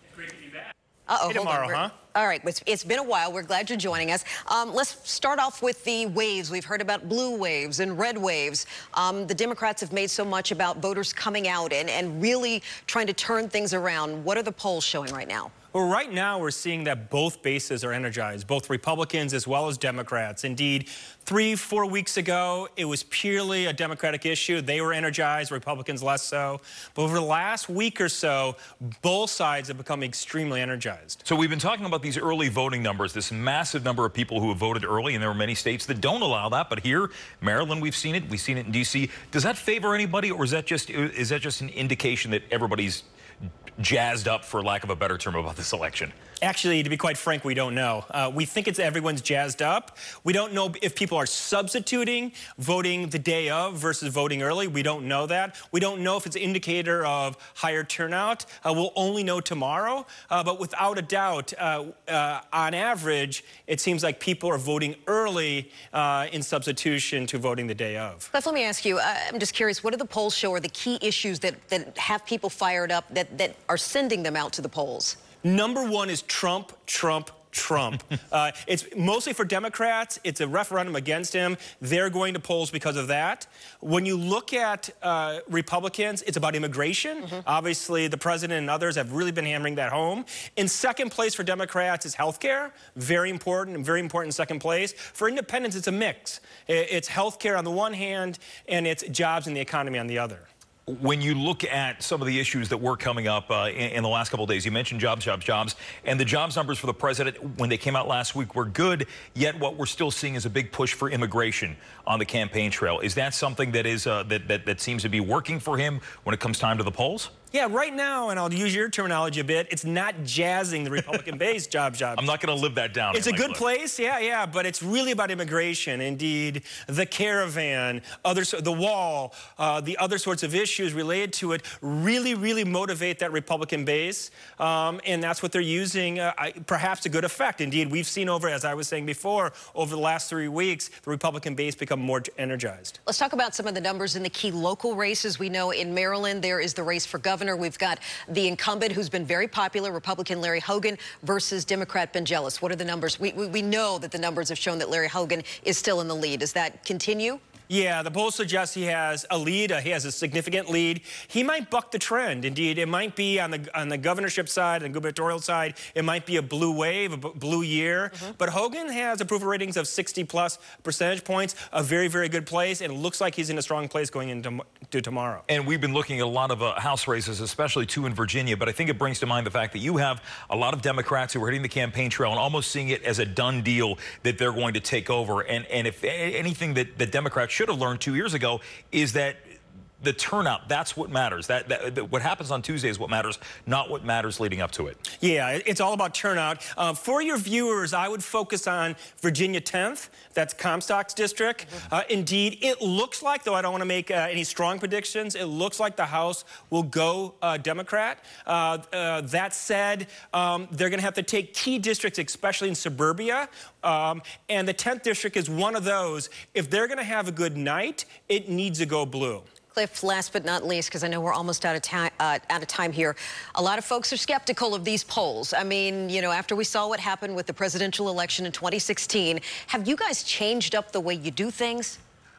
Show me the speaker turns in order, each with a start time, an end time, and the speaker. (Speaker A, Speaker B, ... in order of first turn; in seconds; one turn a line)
Speaker A: 0.1-0.7
Speaker B: 1.1-15.5
Speaker A: 1.3-1.9
Speaker A: 15.7-31.2
Speaker C: 31.2-43.0
Speaker C: 43.8-46.1
Speaker A: 46.4-68.3
Speaker B: 68.3-75.2
Speaker A: 75.4-100.5
Speaker C: 100.9-117.3
Speaker A: 117.5-122.2
Speaker C: 122.2-123.6
Speaker A: 123.1-143.0
Speaker B: 143.1-157.4
Speaker A: 157.7-175.4
Speaker C: 175.5-189.5
Speaker C: 190.0-195.0
Speaker A: 195.1-219.4
Speaker B: 219.7-232.0